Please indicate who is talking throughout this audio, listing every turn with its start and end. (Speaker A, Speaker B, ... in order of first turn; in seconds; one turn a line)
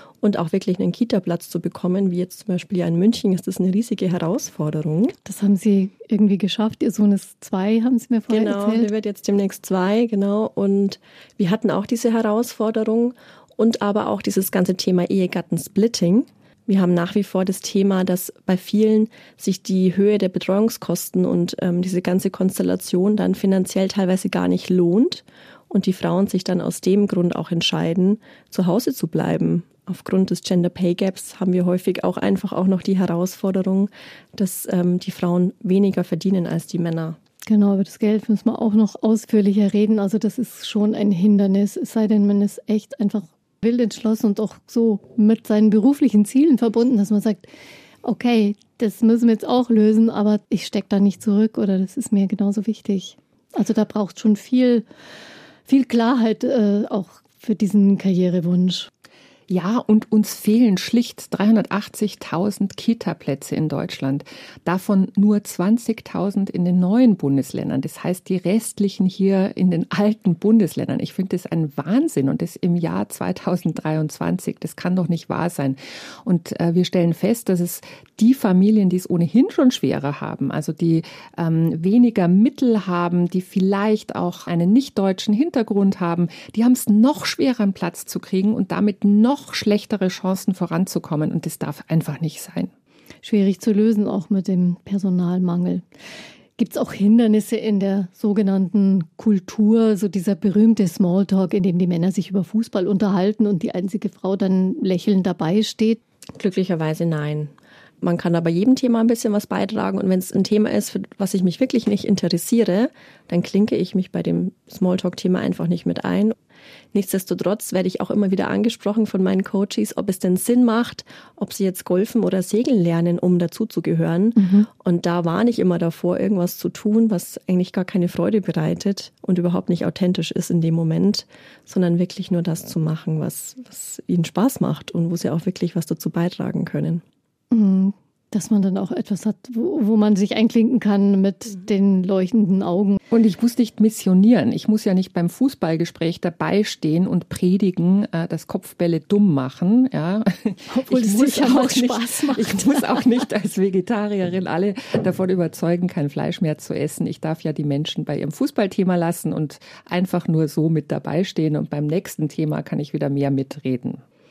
Speaker A: 0.2-5.2
Speaker B: 5.2-8.9
Speaker A: 8.3-37.2
Speaker B: 37.5-47.5
Speaker B: 48.0-54.9
Speaker B: 55.7-58.9
Speaker C: 59.5-92.7
Speaker B: 93.2-95.8
Speaker B: 96.6-106.0
Speaker A: 106.4-116.3
Speaker A: 116.9-137.0
Speaker B: 124.4-124.7
Speaker B: 137.5-143.0
Speaker C: 143.1-164.0
Speaker B: 150.7-153.0